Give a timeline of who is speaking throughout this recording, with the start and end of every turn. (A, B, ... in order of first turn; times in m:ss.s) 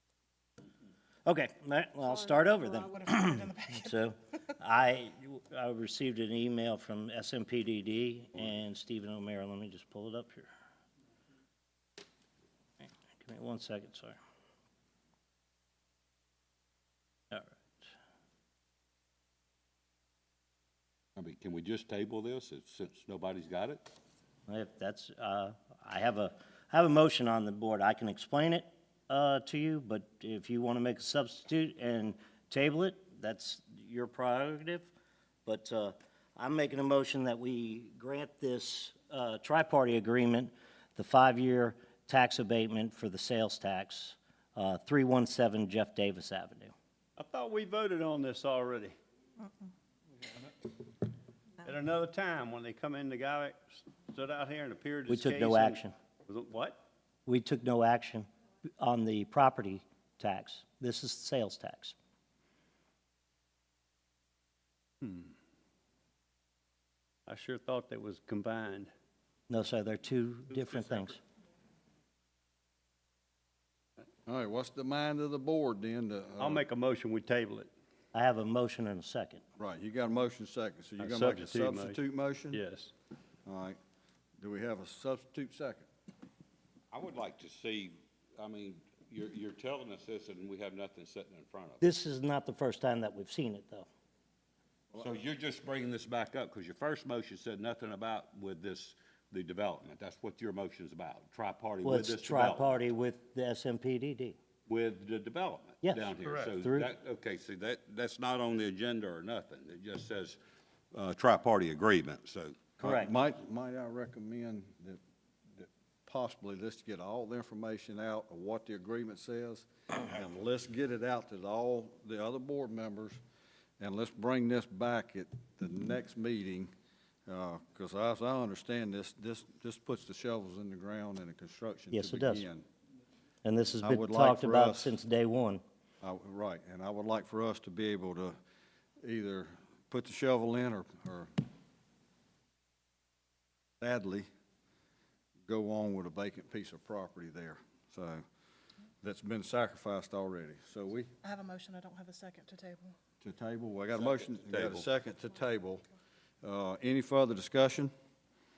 0:01.3-0:10.5 A
0:02.0-0:03.9 B
0:13.2-0:14.2 A
0:21.2-0:23.9 C
0:24.5-0:34.9 A
0:35.5-0:46.7 A
0:47.2-0:49.0 D
0:51.6-0:56.8 D
0:55.1-0:55.9 A
0:57.3-0:58.3 A
0:58.8-1:02.0 A
1:05.0-1:05.3 D
1:07.3-1:08.9 D
1:09.5-1:11.2 A
1:14.3-1:16.6 E
1:16.4-1:17.7 D
1:18.1-1:19.4 A
1:19.6-1:22.6 E
1:21.0-1:22.0 D
1:22.5-1:22.9 D
1:23.4-1:23.8 E
1:24.4-1:25.9 E
1:26.9-1:31.8 C
1:31.8-1:33.9 A
1:35.0-1:42.8 C
1:41.8-1:44.4 A
1:44.7-1:50.4 C
1:45.8-1:46.9 A
1:50.9-1:52.6 C
1:52.8-1:53.1 A
1:52.8-1:55.0 E
1:55.5-2:03.2 E
2:03.8-2:06.7 E
2:07.3-2:12.6 E
2:11.9-2:12.4 A
2:13.4-2:15.6 A
2:13.8-2:15.0 E
2:16.0-2:18.4 E
2:19.0-2:21.3 E
2:23.8-2:24.3 E
2:25.5-2:28.2 E
2:29.0-2:31.1 E
2:31.2-2:32.9 B
2:33.2-2:35.8 E
2:34.2-2:34.9 C
2:36.4-2:37.9 E